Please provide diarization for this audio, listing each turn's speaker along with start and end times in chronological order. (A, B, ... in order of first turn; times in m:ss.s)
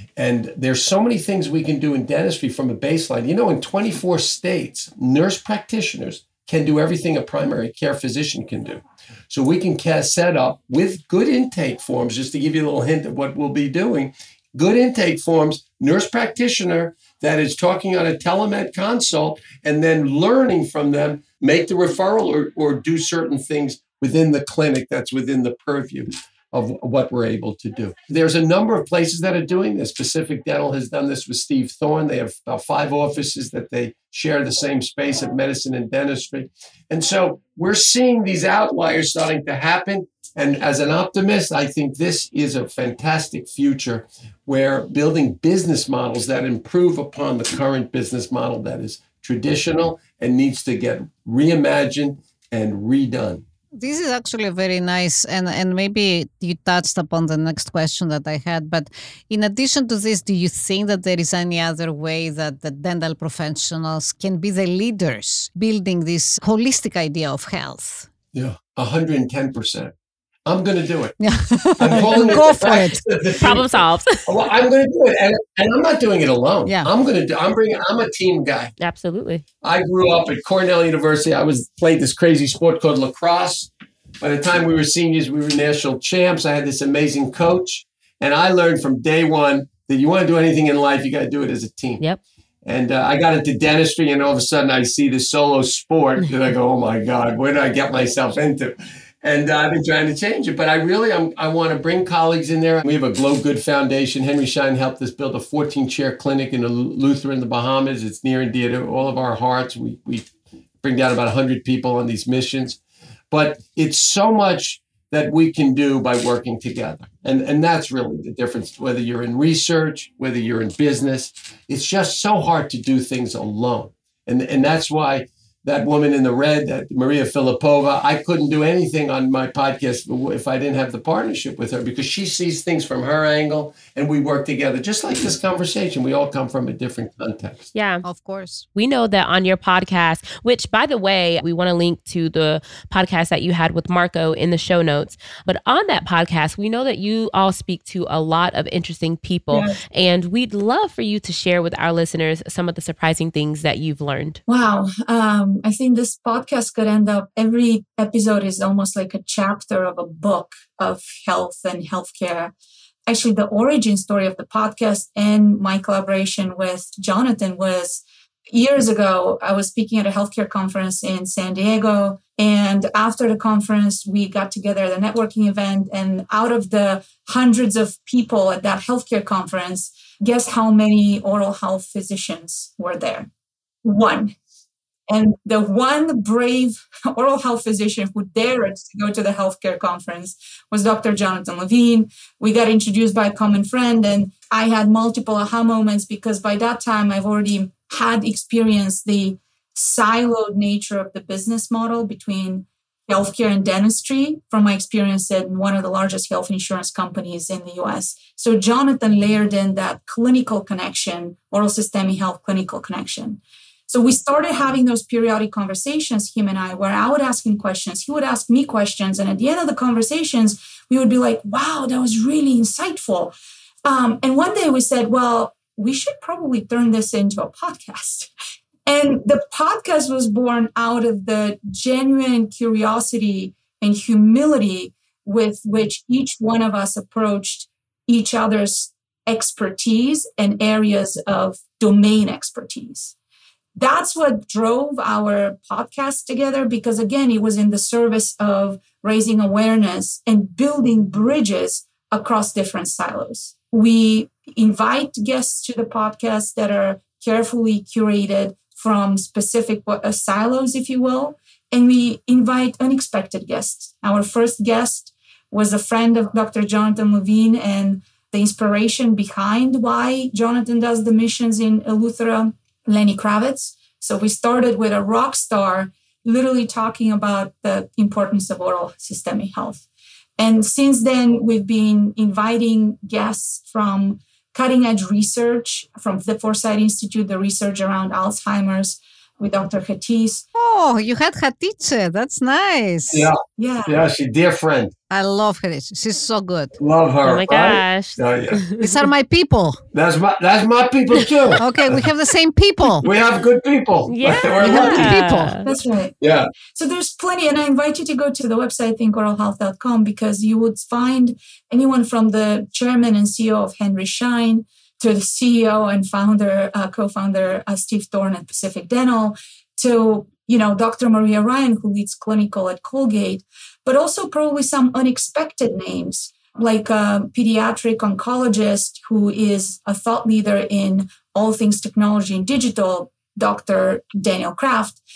0:00.2-0:53.4 A
0:53.7-1:08.1 B
1:08.3-1:09.9 A
1:10.4-1:11.2 A
1:11.2-1:13.0 B
1:11.8-1:18.7 A
1:13.4-1:14.3 C
1:16.6-1:16.9 B
1:18.8-1:19.4 C
1:19.6-1:23.7 A
1:24.2-1:32.0 A
1:32.6-1:50.3 A
1:50.8-1:52.8 A
1:53.3-2:17.7 A
2:17.7-2:18.0 C
2:18.0-2:18.6 B
2:18.7-2:34.4 C
2:29.5-2:29.8 D
2:34.5-2:42.5 D
2:43.1-3:03.3 D
3:03.8-3:04.3 D
3:05.1-3:43.3 D
3:43.8-3:48.3 D
3:48.8-4:03.1 D
4:03.8-4:39.8 D
4:40.4-4:50.4 D
4:50.5-4:53.3 B
4:53.1-4:54.9 A
4:53.6-4:54.0 D
4:55.1-4:56.8 B
4:56.8-4:58.6 A
4:57.2-4:58.9 C
4:58.8-4:59.8 B
4:59.9-5:02.0 A
5:01.6-5:03.1 B
5:03.0-5:05.2 A
5:04.1-5:05.7 C
5:04.5-5:05.6 B
5:05.6-5:06.1 D
5:06.2-5:06.5 A
5:06.7-5:35.0 D